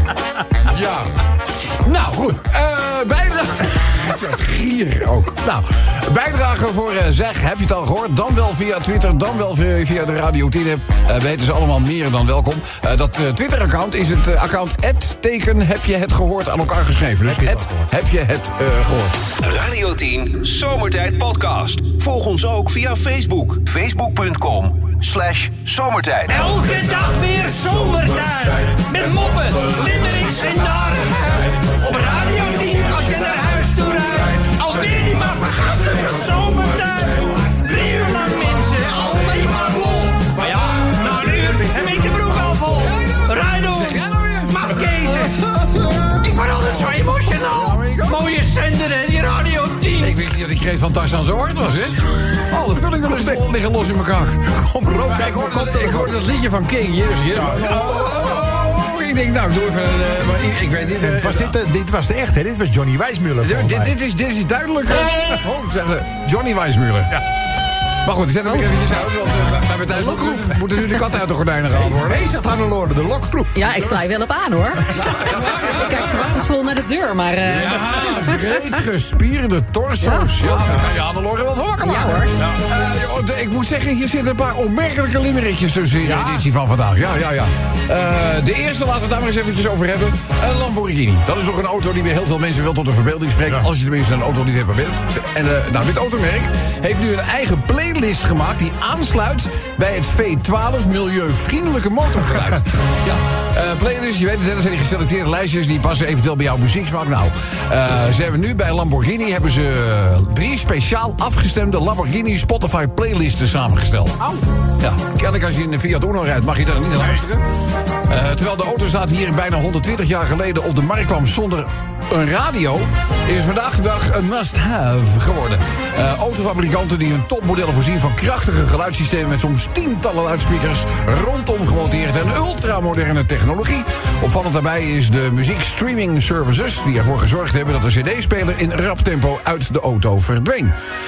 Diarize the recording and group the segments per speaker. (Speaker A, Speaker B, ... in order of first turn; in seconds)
Speaker A: 0.7-19.2, 42.8-48.3, 49.9-61.5, 63.4-67.2, 68.0-72.2, 74.9-76.5, 77.5-114.2, 114.8-117.5, 118.1-140.7
Speaker B: 17.2-17.9, 41.1-42.4, 54.5-56.2, 57.3-58.4, 60.9-64.0, 71.7-73.8, 86.0-86.5
Speaker C: 19.4-26.6
Speaker D: 26.4-44.0, 44.6-45.3, 46.2-50.1
Speaker E: 70.0-70.6, 73.5-78.6, 80.0-80.8, 81.8-82.4